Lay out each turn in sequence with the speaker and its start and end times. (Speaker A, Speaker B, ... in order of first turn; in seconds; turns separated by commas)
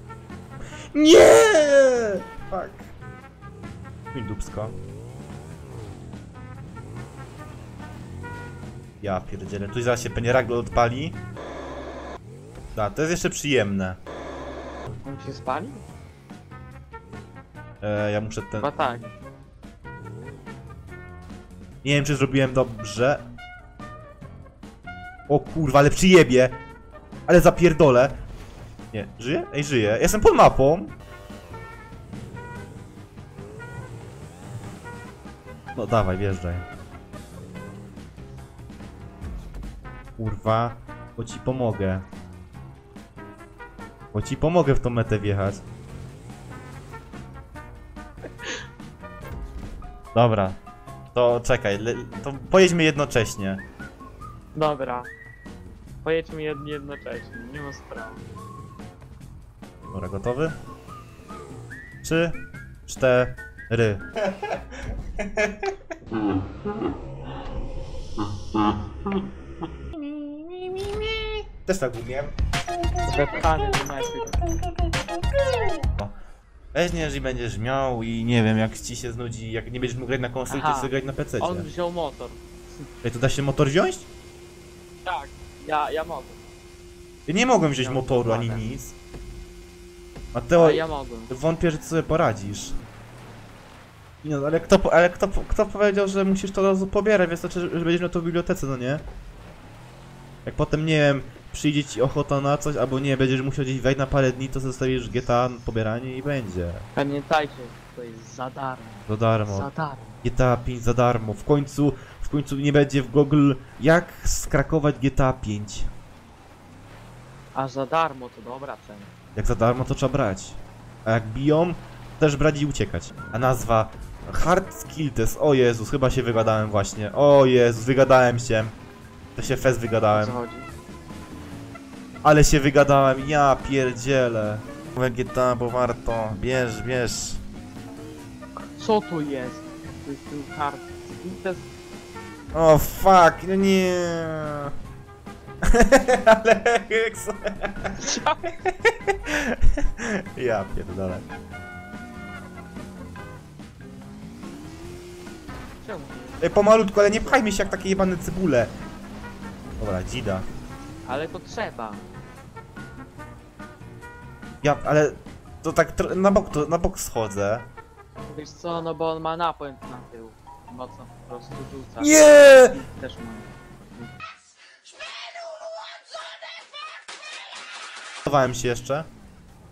Speaker A: 0.9-2.9, Speaker A: 4.1-4.7, Speaker A: 9.0-11.2, Speaker A: 12.8-14.0, Speaker B: 15.0-15.8, Speaker A: 17.8-18.7, Speaker B: 18.5-19.1, Speaker A: 21.8-23.2, Speaker A: 25.3-26.6, Speaker A: 27.3-28.1, Speaker A: 28.9-30.9, Speaker A: 35.8-36.7, Speaker A: 40.2-42.1, Speaker A: 44.1-45.6, Speaker A: 50.1-50.6, Speaker A: 51.1-53.6, Speaker B: 54.5-55.1, Speaker B: 56.0-58.2, Speaker A: 59.9-60.6, Speaker A: 62.0-64.6, Speaker A: 65.2-65.7, Speaker A: 70.7-71.0, Speaker A: 71.7-72.3, Speaker B: 73.0-74.5, Speaker A: 75.8-76.2, Speaker A: 76.7-81.7, Speaker B: 80.5-82.4, Speaker A: 83.0-84.1, Speaker B: 85.0-86.4, Speaker A: 87.3-89.0, Speaker B: 87.8-88.7, Speaker A: 90.3-92.7, Speaker B: 90.6-91.3, Speaker A: 94.2-99.0, Speaker A: 100.5-106.9, Speaker B: 107.0-110.1, Speaker A: 109.1-109.7, Speaker A: 110.2-115.9, Speaker B: 117.5-119.1, Speaker A: 119.4-128.8, Speaker A: 129.4-130.4, Speaker B: 130.1-130.7, Speaker A: 132.2-137.4, Speaker B: 138.8-141.7, Speaker A: 142.5-144.7, Speaker A: 145.7-147.9, Speaker B: 148.0-148.5, Speaker A: 148.6-151.3, Speaker B: 155.8-157.7, Speaker A: 156.4-158.7, Speaker A: 159.8-160.4, Speaker B: 161.1-162.1, Speaker A: 164.6-167.7, Speaker B: 168.3-174.1, Speaker A: 172.0-172.7, Speaker A: 178.3-179.1